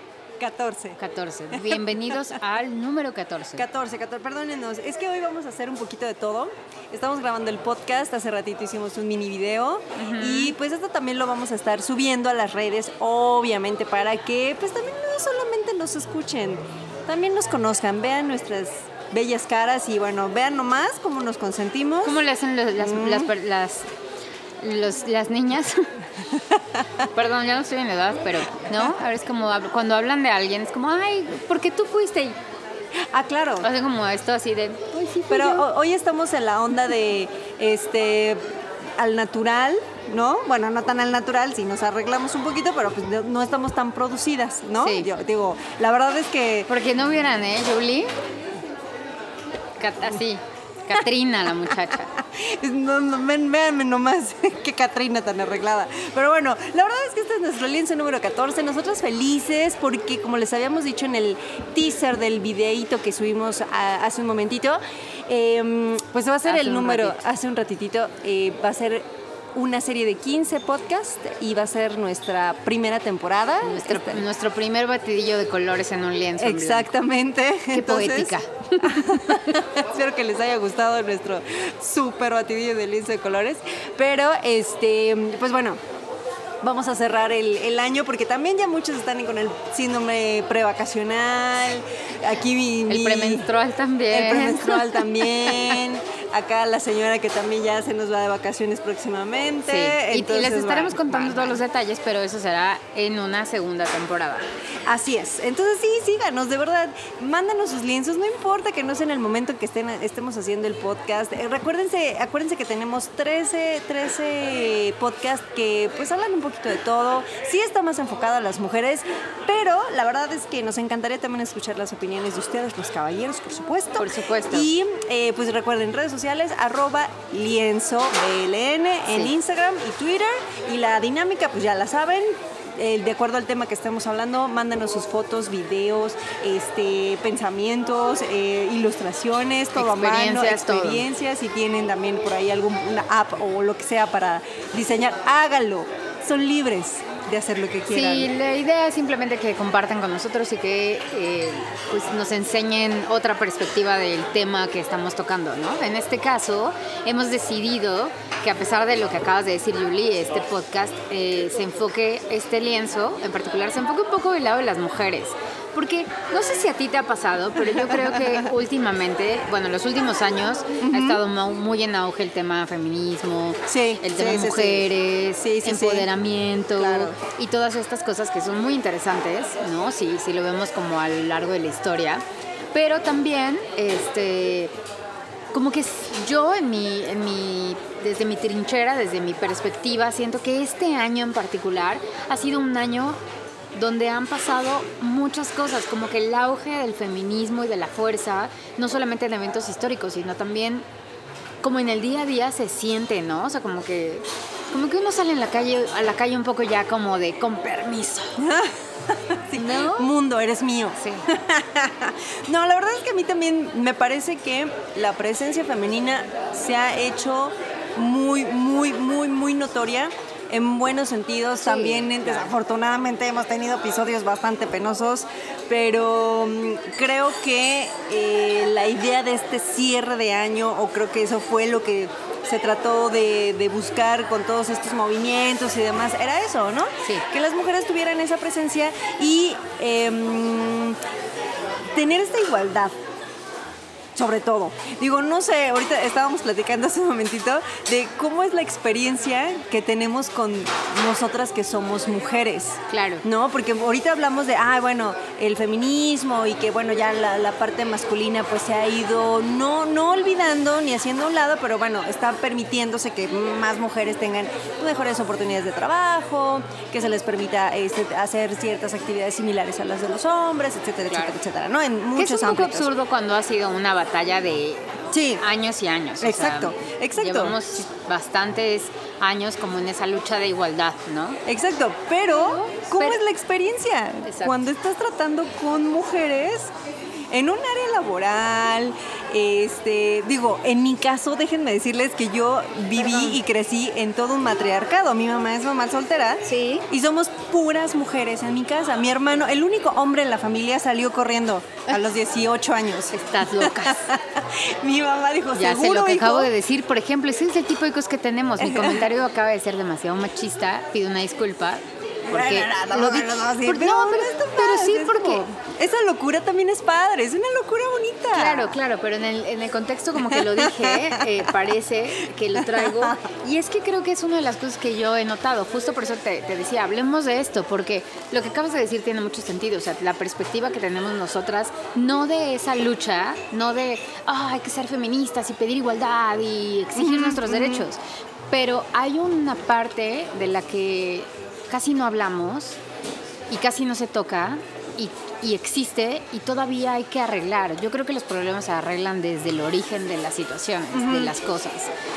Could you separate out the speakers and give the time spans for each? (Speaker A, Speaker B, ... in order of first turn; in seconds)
Speaker A: 0.4-1.0, 1.5-2.4, 3.6-22.2, 22.8-23.3, 26.5-26.8, 33.1-33.7, 35.3-46.7, 51.6-74.2, 76.4-85.8, 86.6-93.5, 94.1-101.6, 104.8-148.3, 167.7-168.5, 170.8-171.2, 173.7-176.1, 176.7-177.2, 208.4-241.0, 241.9-243.0, 244.1-272.9, 275.1-275.4, 276.2-277.6, 281.4-286.7, 287.3-306.5, 308.6-309.1, 312.3-318.8, 320.1-321.5, 322.5-323.2, 336.9-337.9, 350.9-351.3
Speaker B: 1.0-3.6, 9.9-10.6, 22.0-23.9, 24.6-25.9, 27.1-32.4, 33.6-35.7, 44.8-45.1, 46.7-48.1, 49.8-52.1, 66.4-67.2, 73.6-76.9, 77.7-79.6, 92.9-95.8, 99.7-104.5, 124.0-124.7, 139.7-141.1, 147.9-184.7, 185.5-193.2, 193.7-200.8, 201.6-208.5, 209.6-210.1, 211.0-211.3, 221.6-222.5, 252.9-253.2, 272.1-281.4, 282.3-283.2, 284.2-284.6, 293.0-293.4, 296.4-296.9, 303.1-304.1, 305.6-315.5, 318.3-342.8, 343.5-351.9